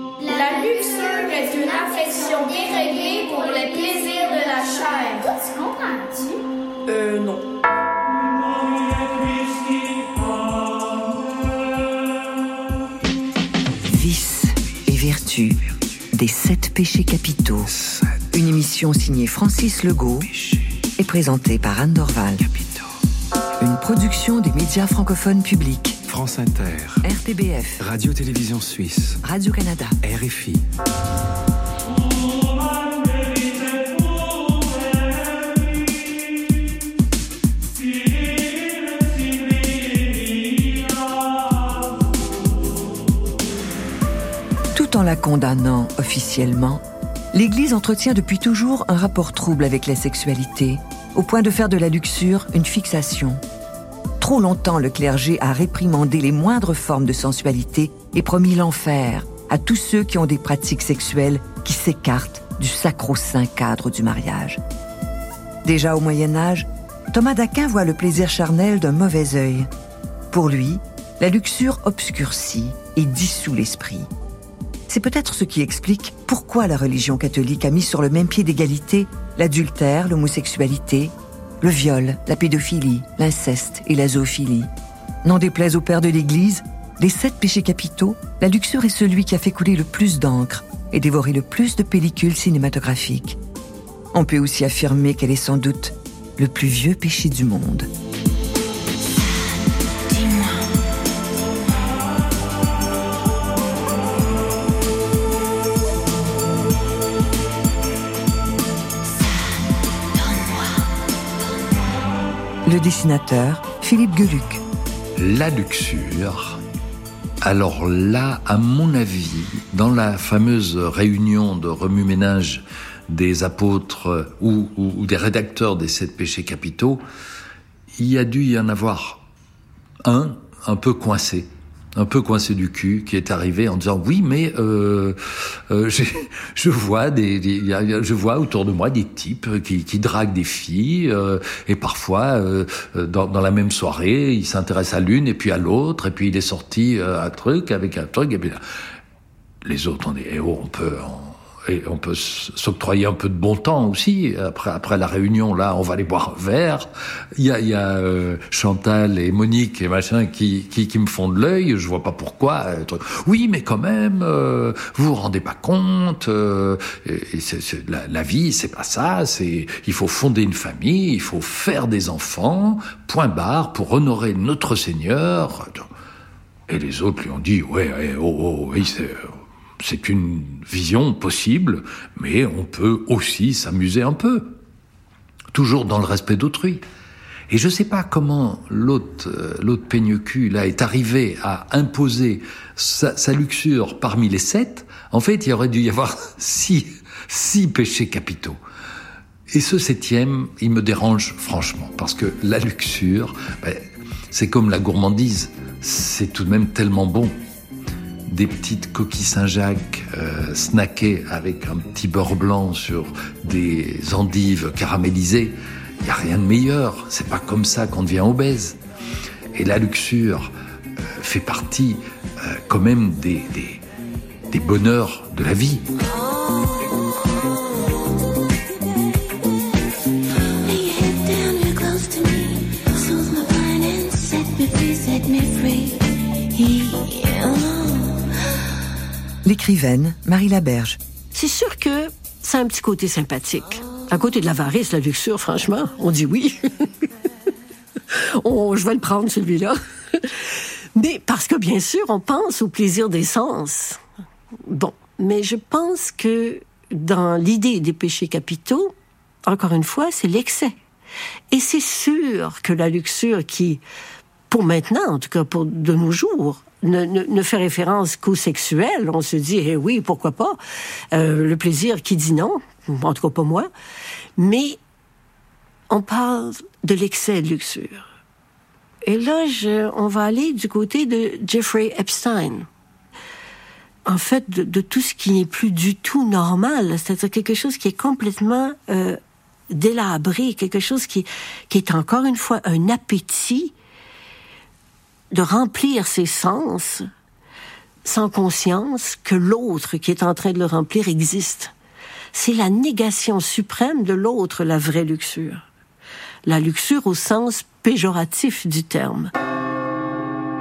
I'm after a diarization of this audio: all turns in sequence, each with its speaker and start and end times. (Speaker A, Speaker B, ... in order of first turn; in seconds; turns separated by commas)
Speaker A: 0.2-6.4, Speaker A: 7.0-7.2, Speaker B: 13.8-17.7, Speaker B: 18.3-20.3, Speaker B: 21.0-22.6, Speaker B: 23.6-26.0, Speaker C: 26.1-27.0, Speaker B: 27.0-27.8, Speaker C: 27.8-29.2, Speaker B: 29.2-30.0, Speaker C: 30.0-30.6, Speaker B: 44.7-53.4, Speaker B: 54.2-64.6, Speaker B: 65.6-69.7, Speaker B: 70.3-74.1, Speaker B: 74.9-84.7, Speaker B: 85.2-93.4, Speaker B: 94.1-97.9, Speaker B: 112.7-114.6, Speaker D: 115.2-116.6, Speaker D: 117.4-127.0, Speaker D: 128.0-129.2, Speaker D: 130.0-135.2, Speaker D: 135.7-148.6, Speaker D: 149.6-175.9, Speaker D: 176.7-184.6, Speaker D: 185.5-186.8, Speaker D: 187.5-198.6, Speaker D: 199.5-207.3, Speaker D: 208.3-218.8, Speaker D: 219.5-223.8, Speaker D: 224.5-225.8, Speaker E: 233.1-233.5, Speaker E: 235.2-235.7, Speaker B: 239.4-241.0, Speaker E: 241.3-246.8, Speaker E: 248.4-250.3, Speaker E: 250.9-254.0, Speaker E: 254.7-258.9, Speaker E: 259.4-260.8, Speaker E: 261.5-263.8, Speaker E: 264.5-270.6, Speaker E: 271.1-273.7, Speaker E: 274.4-274.8, Speaker E: 275.9-278.1, Speaker E: 279.0-282.7, Speaker E: 284.1-289.2, Speaker E: 289.7-293.7, Speaker E: 295.3-297.1, Speaker E: 298.0-301.7, Speaker E: 302.3-305.6, Speaker E: 306.4-309.3